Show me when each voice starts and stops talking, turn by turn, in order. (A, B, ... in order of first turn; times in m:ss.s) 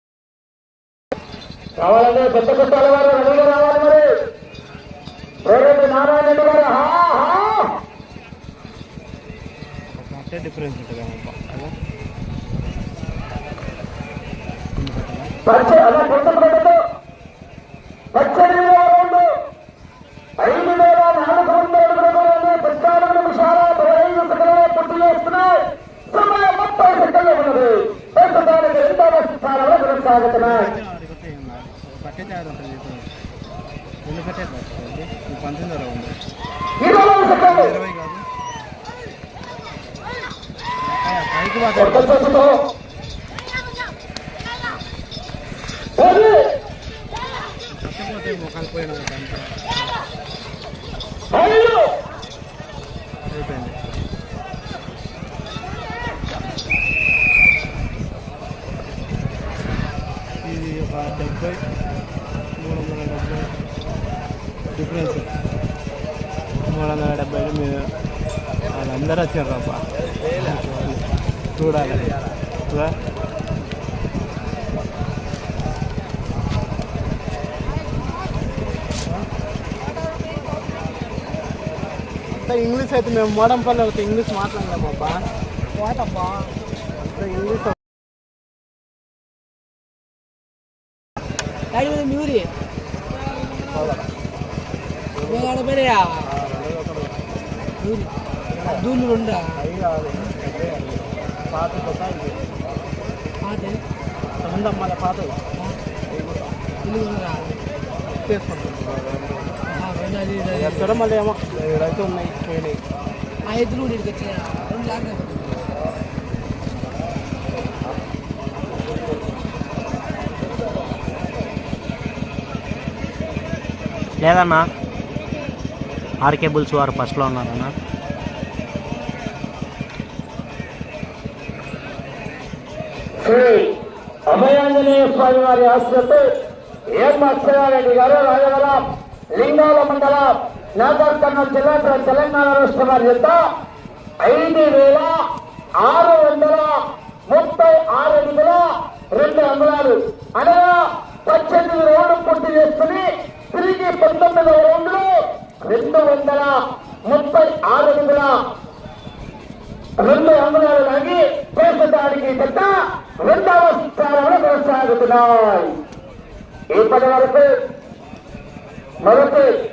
0:01.8-0:04.0 A
0:05.4-0:07.7 A
0:09.9-0:11.7 B
0:14.8-0:15.3 B
0:15.4-0:16.8 A
0:18.1-0:19.3 A
0:20.4-0:30.7 A
0:30.4-0:33.1 B
0:34.0-0:36.2 B
0:36.8-0:37.7 A
0:37.4-0:38.2 B
0:40.8-0:42.2 B
0:41.7-0:42.6 A
0:46.0-0:46.5 A
0:47.7-0:49.9 B
0:51.3-0:51.9 A
0:53.3-0:53.8 B
1:00.4-1:01.6 B
1:02.6-1:03.6 B
1:04.7-1:05.3 B
1:06.6-1:07.9 B
1:08.7-1:13.0 B
1:22.2-1:25.3 B
1:25.7-1:26.5 C
1:27.0-1:27.7 B
1:31.7-1:32.5 C
1:33.7-1:34.1 B
1:35.2-1:35.6 B
1:35.2-1:36.3 C
1:36.2-1:37.2 B
1:37.8-1:38.1 C
1:38.5-1:38.9 B
1:38.6-1:39.6 C
1:39.6-1:42.5 B
1:43.4-1:43.8 C
1:44.4-1:45.4 B
1:46.1-1:46.4 B
1:46.8-1:47.6 C
1:48.1-1:49.6 B
1:49.7-1:51.0 C
1:50.5-1:52.8 B
1:53.5-1:55.6 C
2:04.2-2:04.6 D
2:06.2-2:07.7 D
2:13.2-2:13.7 A
2:14.3-2:16.2 A
2:16.9-2:23.4 A
2:24.2-2:25.2 A
2:25.8-2:38.4 A
2:40.0-2:45.7 A
2:46.7-2:47.5 A
2:49.0-2:49.5 A